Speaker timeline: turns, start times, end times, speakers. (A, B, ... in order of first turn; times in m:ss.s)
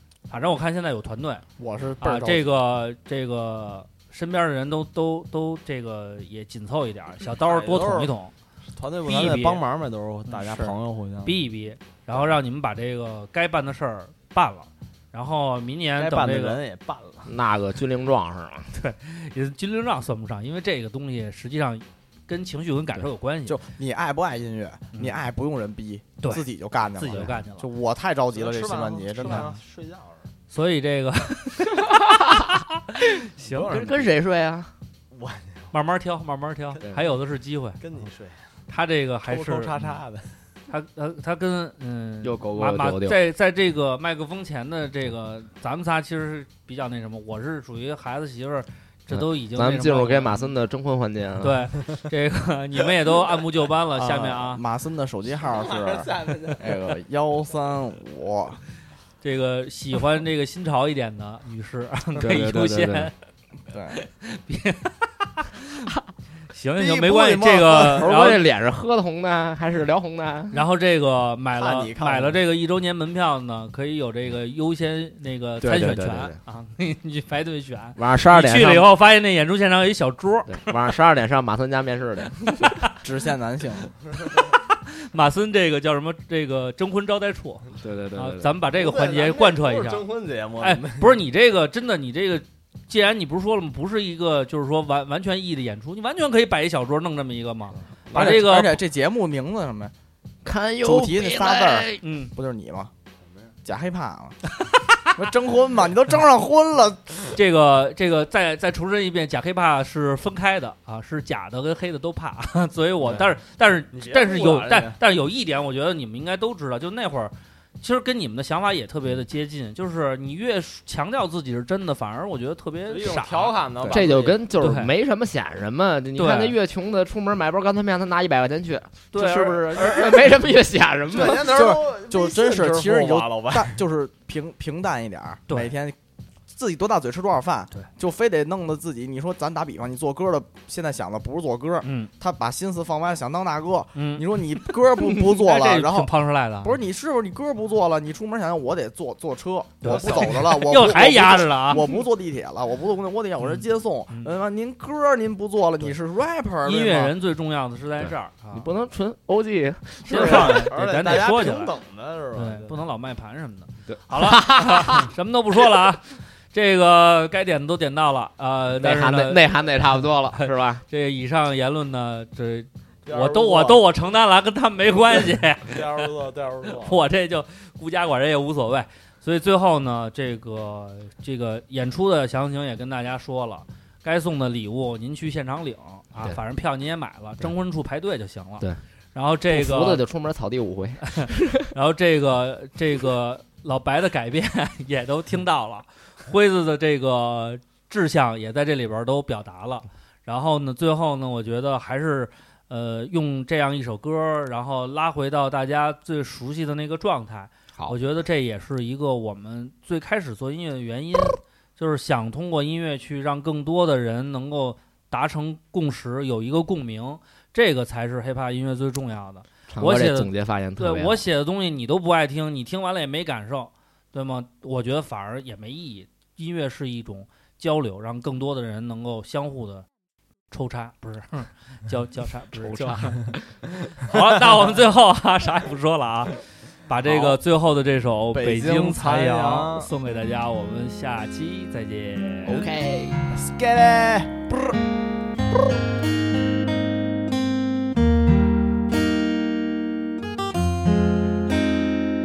0:00.3-0:01.5 A
0:01.6-0:02.5 B
0:02.0-0:08.3 A
0:07.2-0:08.1 C
0:08.8-0:11.4 C
0:09.0-0:09.6 A
0:10.4-0:10.7 B
0:11.2-0:16.6 A
0:16.0-0:17.4 C
0:17.3-0:18.7 D
0:18.7-0:23.6 A
0:23.5-0:29.6 B
0:26.2-0:27.7 A
0:28.3-0:30.2 C
0:29.2-0:29.5 A
0:30.5-0:32.6 A
0:31.8-0:32.5 D
0:33.2-0:33.7 A
0:33.4-0:34.1 C
0:33.7-0:34.7 D
0:35.1-0:35.7 C
0:35.7-0:37.8 A
0:37.8-0:38.4 C
0:38.7-0:39.8 A
0:39.3-0:40.3 C
0:40.7-0:50.5 A
0:42.2-0:43.2 D
0:49.1-0:51.8 D
0:51.4-0:54.6 A
0:53.9-0:58.6 B
0:55.4-0:56.6 C
0:59.2-1:03.1 A
1:02.2-1:03.1 D
1:03.7-1:04.0 B
1:04.0-1:05.9 A
1:06.5-1:08.4 A
1:06.8-1:08.2 C
1:07.7-1:10.6 D
1:10.5-1:20.7 A
1:11.6-1:12.4 C
1:15.6-1:16.4 D
1:18.0-1:18.9 D
1:20.5-1:22.8 D
1:23.0-1:23.9 B
1:24.5-1:30.0 A
1:27.8-1:28.6 D
1:28.7-1:31.2 C
1:30.6-1:38.8 A
1:38.1-1:38.4 C
1:38.1-1:39.9 B
1:40.4-1:42.0 D
1:40.8-1:42.9 B
1:42.0-1:42.3 A
1:43.6-1:44.4 B
1:45.1-1:47.3 B
1:47.3-2:04.1 A
1:53.9-1:55.0 C
2:02.9-2:04.4 C
2:03.9-2:11.5 D
2:04.6-2:04.9 A
2:06.2-2:06.6 A
2:09.1-2:10.2 A
2:09.5-2:10.5 C
2:11.1-2:13.8 C
2:11.2-2:16.0 B
2:16.5-2:37.2 B
2:21.8-2:22.1 A
2:24.0-2:24.2 A
2:25.1-2:26.8 A
2:29.8-2:31.9 A
2:33.4-2:34.3 A
2:36.6-2:38.7 A
2:38.0-2:40.7 D
2:40.1-2:41.7 A
2:40.1-2:42.8 C
2:42.4-2:49.4 A
2:43.9-2:45.1 D
2:48.7-2:50.8 D
2:50.4-2:56.1 A
2:53.1-2:53.9 C
2:55.7-2:57.0 C
2:56.8-3:10.0 A
3:09.5-3:11.7 D
3:11.1-3:49.9 A
3:39.7-3:41.3 D
3:50.5-3:53.3 A
3:52.6-3:53.4 D
3:54.0-3:56.4 A
3:56.9-4:02.7 A
3:57.0-3:57.4 C
3:58.3-3:59.9 C
4:02.4-4:03.2 D
4:03.3-4:04.6 C